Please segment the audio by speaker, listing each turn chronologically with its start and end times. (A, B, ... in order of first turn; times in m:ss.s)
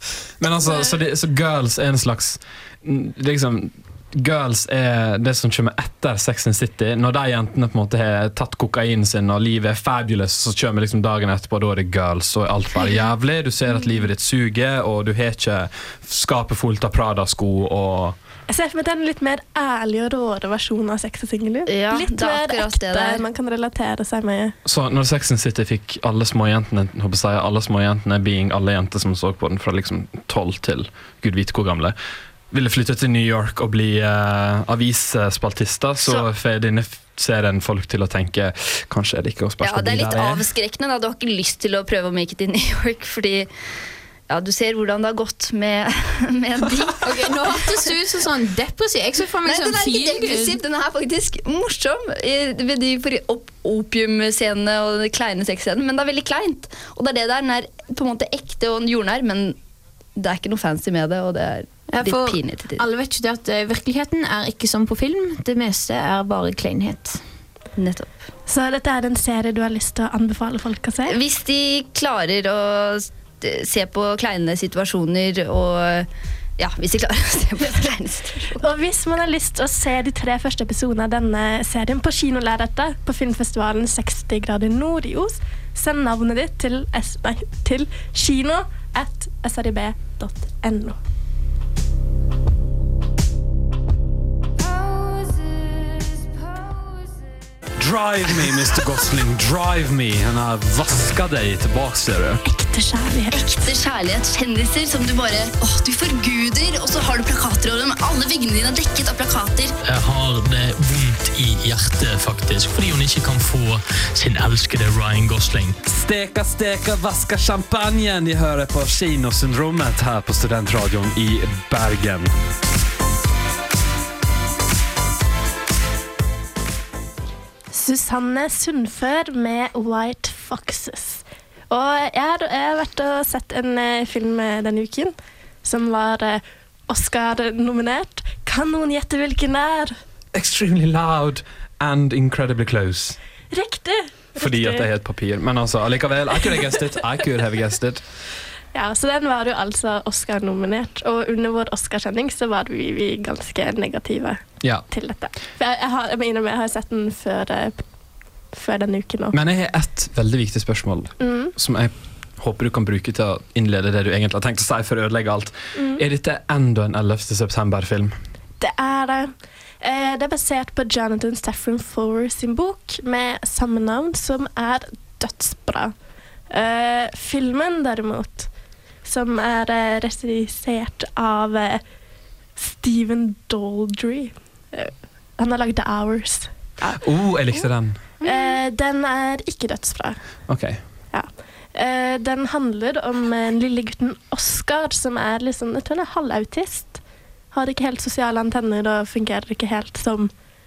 0:00.4-0:18.2 A
0:00.6-0:01.0 B
0:18.5-0:24.6 B
0:21.7-0:23.2 C
0:24.6-0:32.0 A
0:32.5-0:40.5 A
0:39.6-0:43.5 C
0:44.3-0:47.8 C
0:47.0-0:50.6 D
0:49.4-0:59.6 C
1:00.2-1:02.8 C
1:01.9-1:07.2 D
1:07.8-1:08.1 C
1:08.5-1:11.1 B
1:11.1-1:18.6 C
1:18.6-1:31.0 B
1:37.8-1:42.4 A
1:42.4-1:43.6 B
1:43.3-1:49.7 C
1:49.8-1:55.8 E
1:55.8-2:02.3 A
2:07.7-2:19.9 B
2:20.3-2:23.2 A
2:23.5-2:24.9 B
2:24.4-2:28.0 A
2:28.7-2:37.8 B
2:38.5-2:39.4 B
2:39.3-2:48.2 A
2:41.2-2:41.5 B
2:45.7-2:46.0 B
2:48.6-2:55.9 B
2:56.5-2:58.5 B
2:59.0-3:01.8 B
3:02.6-3:07.0 B
3:06.9-3:08.0 A
3:08.2-3:10.2 B
3:10.5-3:10.8 A
3:11.1-3:17.0 B
3:17.5-3:20.3 B